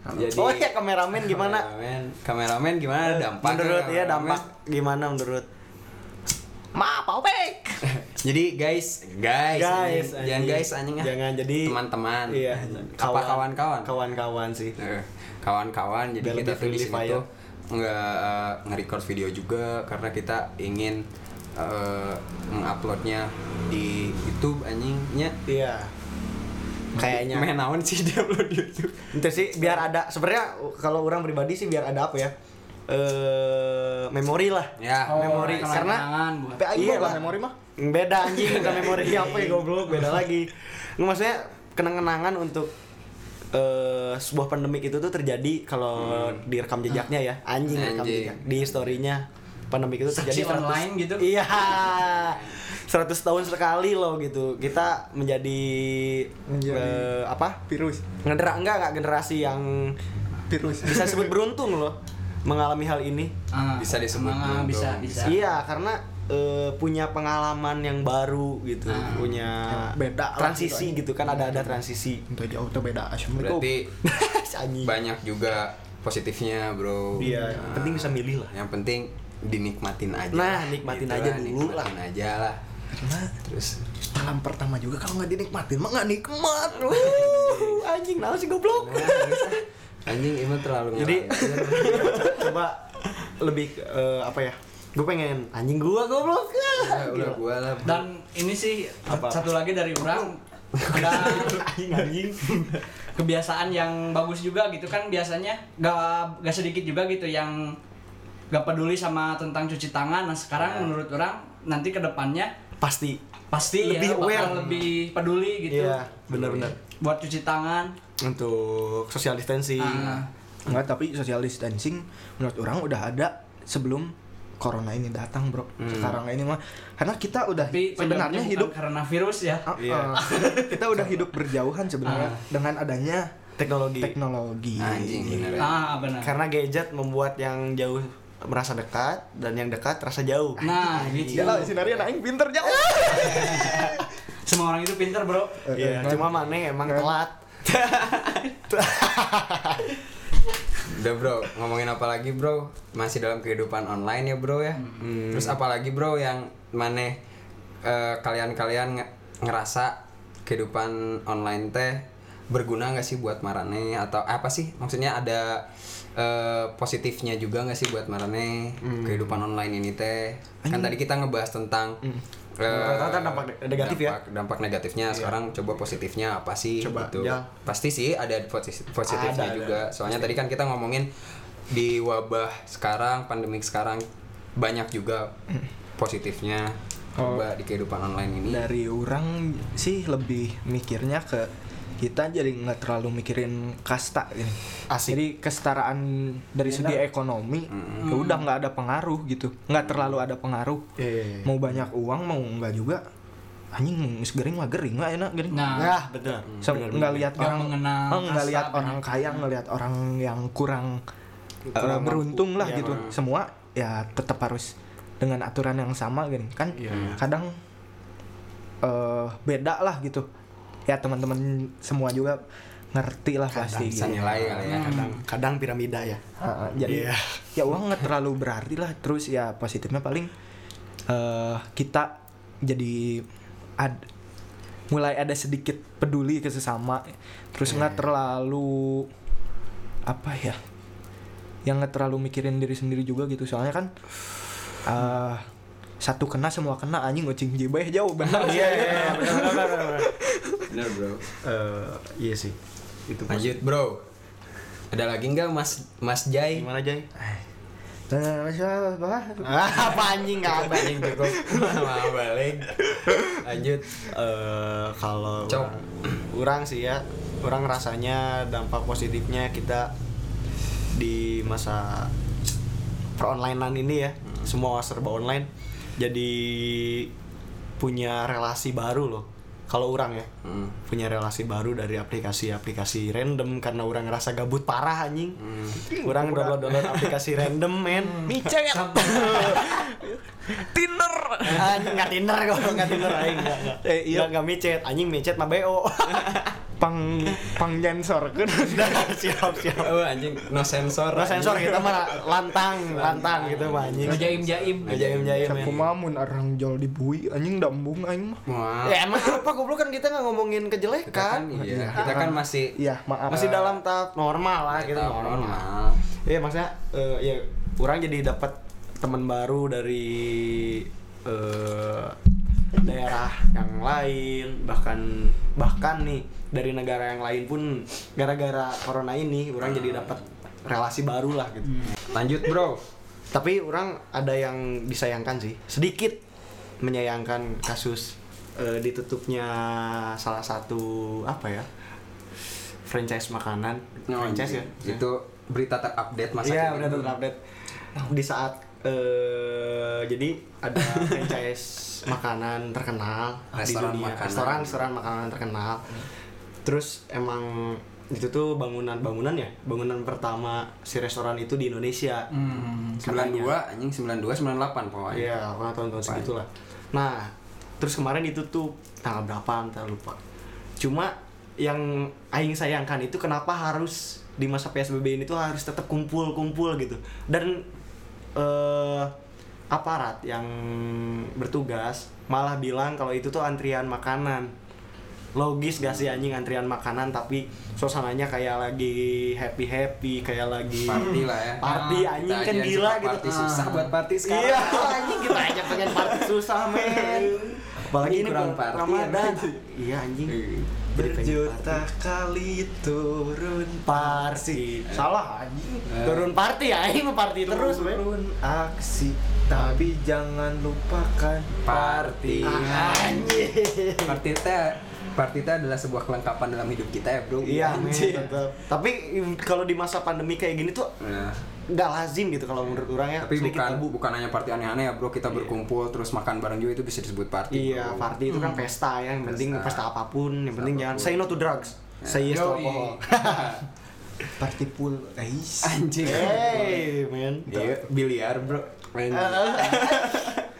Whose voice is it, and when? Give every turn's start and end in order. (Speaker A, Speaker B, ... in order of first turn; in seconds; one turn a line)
Speaker A: 0.1-4.4
Speaker B: 0.3-1.6
Speaker B: 3.0-5.5
Speaker C: 6.7-7.8
Speaker A: 7.9-13.9
Speaker B: 9.5-11.8
Speaker B: 12.3-14.7
Speaker A: 14.8-21.0
Speaker B: 16.2-17.2
Speaker A: 21.6-25.4
Speaker B: 25.4-25.9
Speaker B: 26.9-27.5
Speaker A: 26.9-29.7
Speaker B: 29.1-32.3
Speaker B: 32.9-36.1
Speaker A: 34.8-35.8
Speaker D: 35.1-37.1
Speaker C: 36.6-37.5
Speaker B: 36.7-42.7
Speaker A: 38.4-39.4
Speaker B: 43.5-57.6
Speaker A: 46.0-46.4
Speaker A: 47.7-48.4
Speaker D: 50.1-51.3
Speaker A: 52.2-52.5
Speaker C: 56.5-57.1
Speaker C: 57.6-58.0
Speaker B: 58.2-60.0
Speaker C: 60.5-61.3
Speaker B: 60.7-63.3
Speaker D: 63.5-65.4
Speaker A: 63.8-65.4
Speaker B: 65.2-72.2
Speaker D: 68.9-69.4
Speaker C: 69.6-71.6
Speaker C: 72.3-73.7
Speaker A: 73.4-74.0
Speaker B: 74.0-74.9
Speaker A: 74.8-82.6
Speaker B: 77.2-78.5
Speaker C: 77.2-77.6
Speaker B: 80.3-81.9
Speaker C: 82.9-83.3
Speaker A: 83.4-83.8
Speaker C: 84.1-87.4
Speaker B: 86.7-89.5
Speaker A: 87.3-87.7
Speaker A: 88.7-92.4
Speaker B: 90.9-92.8
Speaker B: 93.4-97.4
Speaker A: 96.8-98.1
Speaker D: 97.8-101.6
Speaker B: 99.1-99.5
Speaker A: 100.7-101.5
Speaker B: 100.9-102.8
Speaker D: 103.1-107.8
Speaker D: 108.5-112.5
Speaker A: 110.6-110.9
Speaker B: 112.8-113.2
Speaker D: 113.5-116.0
Speaker B: 113.8-114.6
Speaker A: 114.4-114.9
Speaker B: 115.7-116.8
Speaker A: 116.3-116.7
Speaker D: 117.0-117.9
Speaker B: 118.2-120.2
Speaker D: 119.8-120.3
Speaker C: 120.7-128.7
Speaker A: 125.8-126.2
Speaker D: 127.6-129.7
Speaker C: 129.7-133.3
Speaker B: 129.8-130.5
Speaker D: 132.0-132.4
Speaker B: 133.6-134.1
Speaker C: 134.0-135.7
Speaker A: 134.8-135.8
Speaker D: 135.6-136.3
Speaker B: 136.2-140.6
Speaker D: 140.6-141.7
Speaker A: 141.1-142.0
Speaker C: 141.3-144.0
Speaker D: 143.3-143.9
Speaker D: 144.4-145.7
Speaker C: 145.7-147.1
Speaker B: 145.7-149.9
Speaker A: 150.8-157.2
Speaker B: 155.0-155.6
Speaker A: 157.8-172.0
Speaker B: 168.8-169.4
Speaker C: 170.6-170.9
Speaker A: 172.6-181.1
Speaker B: 172.7-174.2
Speaker B: 176.8-177.5
Speaker B: 179.1-180.3
Speaker A: 181.7-184.0
Speaker A: 184.6-185.3
Speaker A: 186.0-188.7
Speaker C: 187.2-187.5
Speaker C: 188.5-200.8
Speaker B: 194.9-195.2
Speaker B: 196.7-197.0
Speaker A: 197.7-198.1
Speaker D: 198.0-198.4
Speaker B: 201.0-201.7
Speaker C: 201.4-203.0
Speaker C: 203.7-205.9
Speaker D: 205.5-206.0
Speaker B: 205.7-207.3
Speaker C: 206.6-211.0
Speaker D: 207.3-209.4
Speaker B: 211.7-213.0
Speaker C: 211.7-217.6
Speaker B: 216.8-217.2
Speaker A: 216.9-217.2
Speaker C: 218.8-220.2
Speaker C: 220.9-224.5
Speaker B: 223.5-226.2
Speaker A: 223.9-225.1
Speaker D: 224.6-225.2
Speaker C: 226.4-230.3
Speaker B: 226.8-227.4
Speaker C: 231.1-233.2
Speaker C: 233.8-234.1
Speaker C: 234.9-239.1
Speaker B: 237.7-238.0
Speaker C: 240.1-240.6
Speaker C: 241.7-243.9
Speaker C: 244.8-245.4
Speaker C: 246.0-250.7
Speaker B: 248.3-250.1
Speaker A: 250.7-251.2
Speaker B: 251.4-252.6
Speaker B: 253.1-253.6
Speaker A: 253.3-254.0
Speaker A: 254.9-256.6
Speaker B: 256.5-257.1
Speaker C: 258.1-259.8
Speaker B: 259.4-261.3
Speaker A: 260.4-264.0
Speaker C: 261.5-261.8
Speaker B: 264.0-269.9
Speaker A: 265.5-265.8
Speaker B: 270.9-272.1
Speaker B: 273.2-277.1
Speaker B: 277.8-280.3
Speaker A: 280.4-280.7
Speaker B: 280.8-289.9
Speaker A: 285.4-285.8
Speaker C: 285.9-287.1
Speaker C: 288.1-292.1
Speaker D: 288.7-289.6
Speaker B: 291.4-296.6
Speaker C: 292.6-294.3
Speaker C: 296.8-299.3
Speaker B: 298.6-300.1
Speaker A: 299.8-305.9
Speaker B: 301.1-305.8
Speaker D: 304.0-305.0
Speaker C: 305.4-308.4
Speaker A: 308.4-309.1
Speaker B: 308.8-312.3
Speaker A: 311.1-312.8
Speaker C: 311.6-313.8
Speaker B: 313.3-315.7
Speaker A: 314.7-316.0
Speaker B: 316.2-322.1
Speaker B: 322.8-331.9
Speaker A: 329.6-330.2
Speaker A: 332.1-332.8
Speaker B: 333.3-336.2
Speaker B: 336.8-341.7
Speaker B: 342.9-345.0
Speaker A: 344.1-347.2
Speaker B: 346.4-347.4
Speaker B: 348.0-356.0
Speaker A: 353.5-354.8
Speaker B: 356.6-362.3
Speaker D: 362.3-363.0
Speaker A: 362.4-365.3
Speaker B: 363.0-363.5
Speaker B: 365.1-370.2
Speaker B: 370.8-377.6
Speaker B: 378.3-379.1
Speaker B: 379.7-384.5
Speaker B: 385.3-400.4
Speaker A: 390.8-399.6
Speaker D: 393.3-393.9
Speaker A: 400.3-400.7
Speaker B: 400.9-401.8
Speaker C: 400.9-405.9
Speaker B: 403.8-405.0
Speaker A: 405.9-406.3
Speaker B: 406.0-408.0
Speaker C: 407.4-411.7
Speaker B: 409.5-409.9
Speaker A: 411.6-413.2
Speaker B: 411.7-414.2
Speaker A: 414.0-418.3
Speaker B: 417.4-420.9
Speaker A: 421.0-421.4
Speaker B: 421.7-423.9
Speaker A: 422.7-428.1
Speaker B: 427.5-433.5
Speaker D: 428.3-428.6
Speaker A: 429.2-429.8
Speaker A: 430.6-431.4
Speaker A: 432.0-433.6
Speaker D: 432.3-432.9
Speaker C: 434.4-436.6
Speaker A: 435.6-436.9
Speaker B: 436.0-437.8
Speaker A: 437.5-440.4
Speaker B: 439.1-440.2